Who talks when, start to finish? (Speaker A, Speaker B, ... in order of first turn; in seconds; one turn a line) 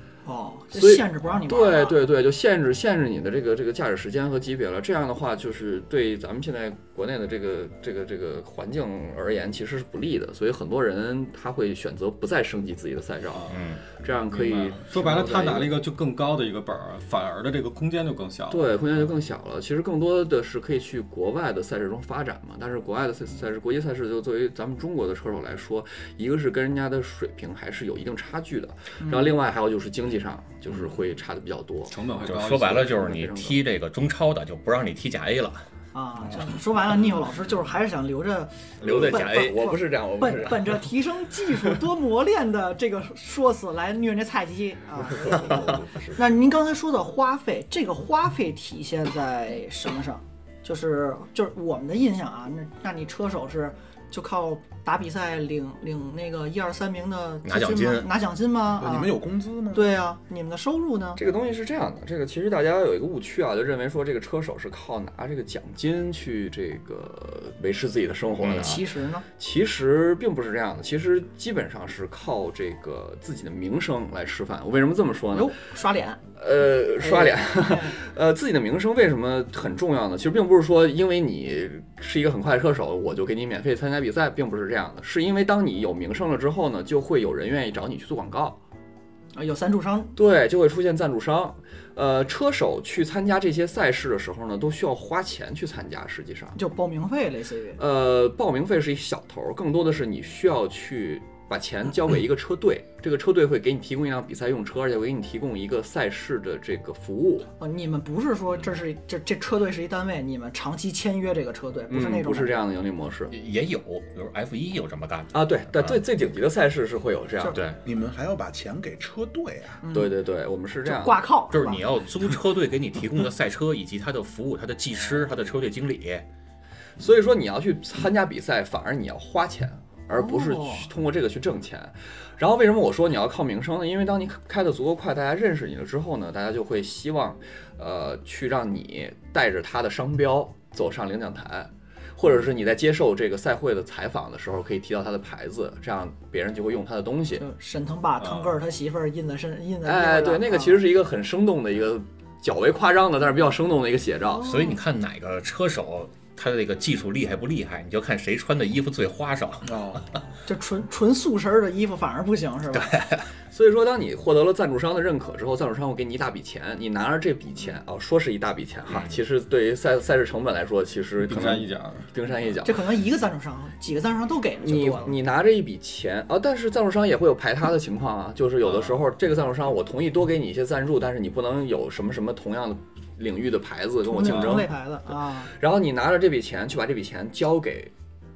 Speaker A: 0.2-2.0
Speaker B: 0.7-15.8
Speaker C: 13.3-13.7
Speaker D: 13.5-13.8
Speaker C: 14.2-19.1
Speaker B: 18.5-33.6
Speaker A: 29.0-29.3
Speaker C: 31.9-33.1
Speaker D: 32.2-35.6
Speaker A: 35.9-59.2
Speaker B: 38.8-40.9
Speaker D: 38.8-39.7
Speaker B: 45.0-46.2
Speaker D: 57.4-58.1
Speaker E: 58.7-60.0
Speaker A: 59.7-61.2
Speaker B: 61.1-68.8
Speaker D: 68.4-68.8
Speaker A: 68.5-69.2
Speaker B: 69.3-75.5
Speaker A: 75.3-76.2
Speaker B: 76.3-88.6
Speaker A: 77.0-78.0
Speaker A: 89.3-90.1
Speaker B: 90.2-96.6
Speaker A: 96.5-97.8
Speaker B: 97.8-107.5
Speaker A: 107.6-112.6
Speaker B: 111.9-113.3
Speaker D: 113.3-116.0
Speaker B: 115.3-117.6
Speaker D: 117.5-117.8
Speaker E: 117.8-119.8
Speaker A: 119.8-120.1
Speaker B: 119.9-121.2
Speaker A: 120.8-122.3
Speaker D: 121.5-126.2
Speaker B: 127.0-147.4
Speaker A: 130.1-130.9
Speaker A: 147.4-150.8
Speaker C: 148.2-148.6
Speaker B: 149.8-154.4
Speaker A: 154.3-154.8
Speaker D: 154.4-159.7
Speaker E: 159.6-160.1
Speaker A: 160.4-162.9
Speaker D: 162.7-163.3
Speaker B: 163.5-172.8
Speaker C: 171.2-172.1
Speaker A: 172.6-175.2
Speaker B: 174.6-187.9
Speaker C: 178.6-179.0
Speaker A: 184.0-185.5
Speaker C: 184.3-184.6